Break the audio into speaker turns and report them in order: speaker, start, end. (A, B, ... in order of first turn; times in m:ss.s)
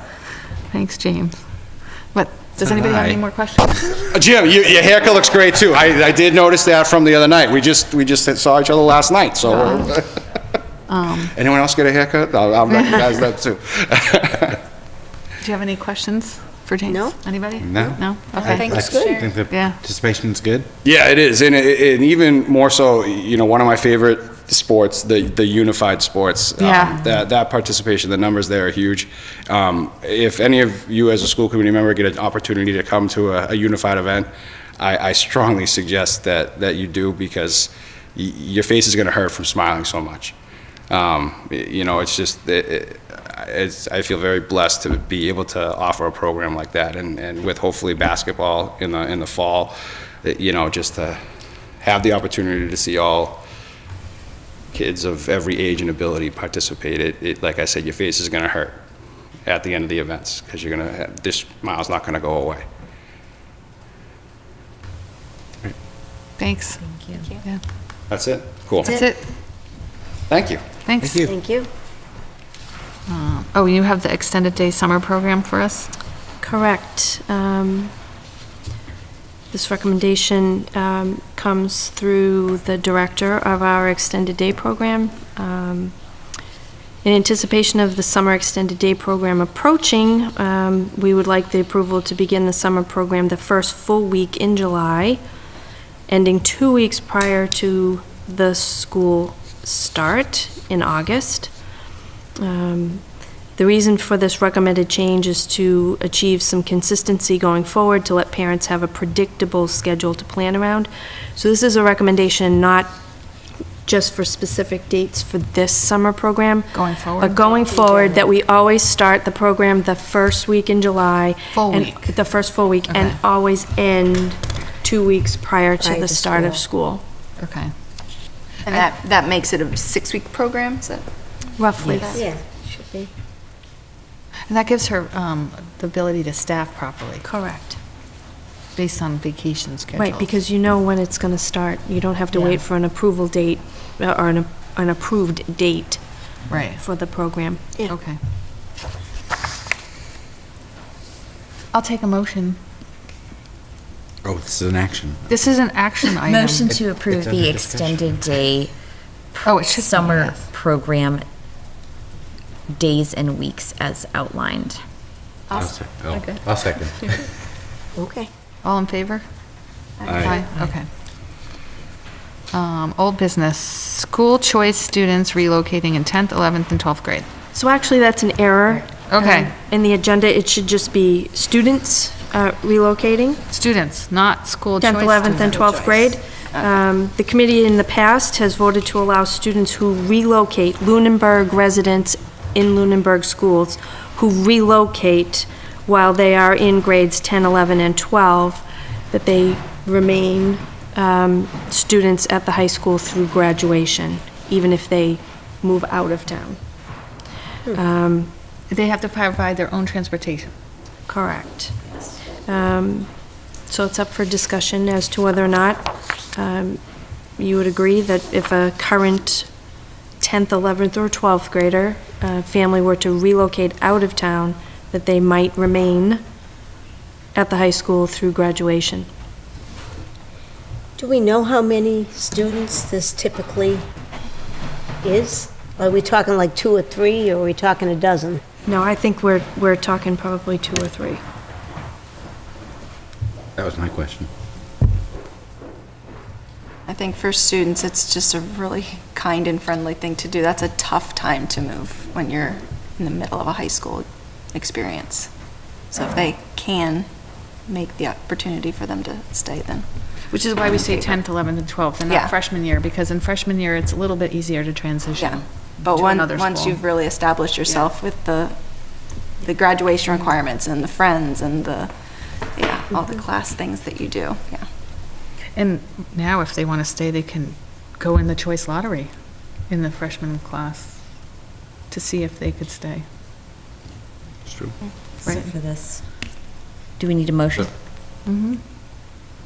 0:00.7-0:01.4 A
0:02.1-0:04.0 A
0:02.6-0:03.2 B
0:04.1-0:10.4 C
0:09.6-0:09.9 A
0:10.9-0:11.3 A
0:11.2-0:14.6 C
0:12.7-0:13.0 A
0:15.4-0:18.7 A
0:16.9-0:17.2 D
0:17.6-0:20.7 B
0:18.4-0:19.4 E
0:18.4-0:19.2 D
0:19.5-0:19.8 A
0:20.8-0:40.4 C
0:26.6-0:27.0 A
0:40.9-0:51.2 C
0:51.8-0:53.4 C
0:54.7-0:58.8 C
0:59.5-1:02.6 C
1:06.4-1:06.8 A
1:06.8-1:07.3 F
1:08.1-1:09.0 C
1:08.8-1:09.2 A
1:10.3-1:10.6 C
1:10.9-1:11.3 A
1:11.0-1:11.3 B
1:11.2-1:11.7 D
1:13.1-1:15.9 A
1:16.4-1:17.9 G
1:19.5-1:26.0 G
1:27.0-1:35.2 G
1:36.1-1:41.5 G
1:42.4-1:43.0 G
1:43.6-1:52.9 G
1:53.8-2:07.0 G
1:56.7-1:57.4 A
1:57.4-1:58.2 D
2:01.5-2:02.1 A
2:02.9-2:03.2 A
2:05.8-2:06.6 D
2:07.4-2:07.7 A
2:08.6-2:12.2 E
2:11.6-2:12.2 G
2:11.8-2:12.0 F
2:12.1-2:13.1 D
2:14.5-2:17.2 A
2:17.2-2:17.8 G
2:18.8-2:20.3 A
2:20.0-2:26.0 G
2:22.3-2:22.6 A
2:26.5-2:26.8 A
2:26.8-2:27.7 G
2:27.9-2:28.2 A
2:31.7-2:32.6 A
2:34.2-2:35.2 B
2:35.3-2:36.7 A
2:36.2-2:38.7 F
2:36.6-2:38.3 B
2:39.3-2:41.3 F
2:39.4-2:40.4 A
2:42.7-2:44.8 F
2:45.5-2:47.2 B
2:48.0-2:48.3 D
2:48.6-2:49.2 A
2:50.0-2:50.5 E
2:50.1-2:50.4 B
2:50.2-2:50.9 A
2:52.5-2:57.3 A
2:57.5-3:03.4 G
2:59.1-2:59.5 A
3:03.5-3:05.6 A
3:04.8-3:26.6 G
3:05.3-3:06.8 E
3:27.7-3:28.3 G
3:28.7-3:30.5 A
3:31.1-3:31.8 G
3:32.4-3:33.1 G
3:33.7-3:36.8 G
3:37.4-3:39.5 G
3:40.2-3:46.2 G
3:47.4-3:49.1 G
3:51.0-3:53.8 D
3:55.0-3:58.4 D
3:58.7-4:01.2 G
4:03.6-4:04.3 B
4:06.9-4:15.3 E
4:15.9-4:19.9 E
4:20.3-4:27.0 A
4:20.7-4:21.1 E
4:22.1-4:22.3 E
4:25.2-4:34.6 E
4:35.6-4:43.1 A
4:44.5-4:44.7 B
4:45.2-4:46.1 F
4:45.2-4:45.5 A
4:47.0-4:47.7 F
4:48.2-4:48.6 A